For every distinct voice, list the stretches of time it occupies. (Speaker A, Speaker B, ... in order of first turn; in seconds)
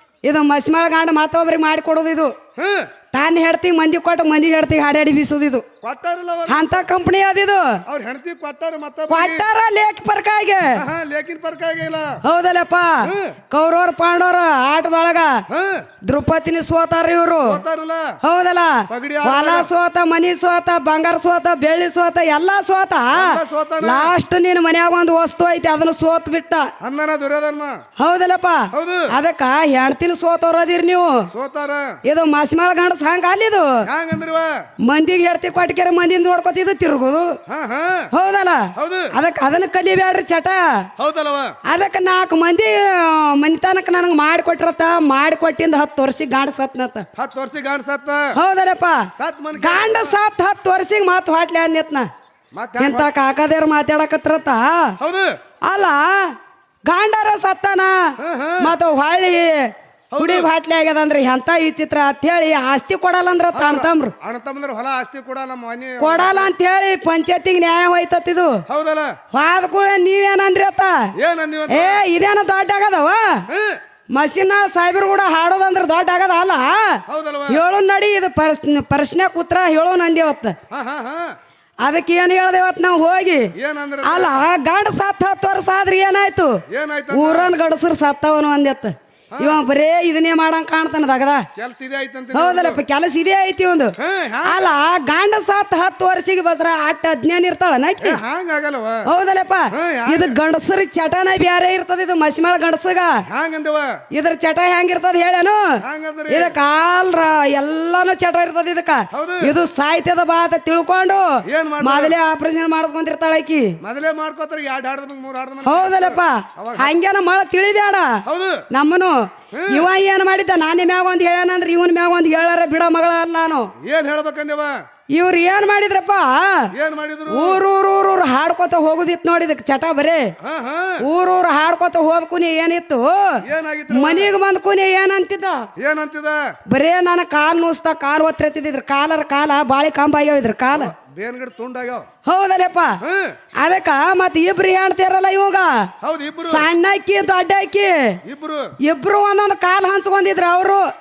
Speaker A: 0.2-2.3, 3.1-5.7, 6.5-7.8, 9.1-10.8, 12.2-15.4, 16.1-17.6, 18.2-26.7, 28.0-31.3, 32.0-33.8, 34.9-37.4, 38.1-40.9, 41.7-47.1, 48.4-52.1, 52.8-55.0, 55.7-56.4, 56.9-64.1, 66.0-68.6, 69.3-71.1, 71.7-73.4, 74.2-80.6, 81.8-83.5, 84.0-91.5, 92.3-98.2, 99.1-103.2, 104.1-113.7, 115.7-123.7, 125.1-126.7, 127.3-130.3, 131.0-135.7, 136.7-140.9, 142.2-143.0, 143.6-145.9, 146.4-148.2, 148.8-150.9
Speaker B: 2.6-2.9, 5.8-6.7, 7.9-9.4, 10.7-12.2, 13.0-13.4, 15.5-15.8, 17.5-18.2, 18.9-19.7, 23.1-24.1, 26.8-27.8, 28.7-29.1, 31.3-32.0, 33.9-34.6, 37.5-38.1, 38.8-39.1, 41.0-41.5, 47.2-48.3, 49.2-50.1, 52.5-53.1, 55.0-55.4, 58.2-58.7, 60.1-60.5, 63.5-66.5, 68.7-69.2, 71.2-72.0, 73.5-73.8, 77.1-77.6, 80.7-81.3, 83.6-84.4, 86.7-87.5, 89.4-89.6, 91.6-92.8, 94.0-94.7, 98.0-99.0, 99.7-100.4, 103.3-104.0, 105.8-106.5, 109.1-109.5, 111.5-112.2, 113.8-116.9, 118.3-118.6, 119.5-119.9, 123.8-124.8, 126.7-127.6, 130.4-131.0, 133.4-134.3, 135.8-136.4, 140.7-142.1, 143.0-143.3, 146.0-146.7, 148.2-148.7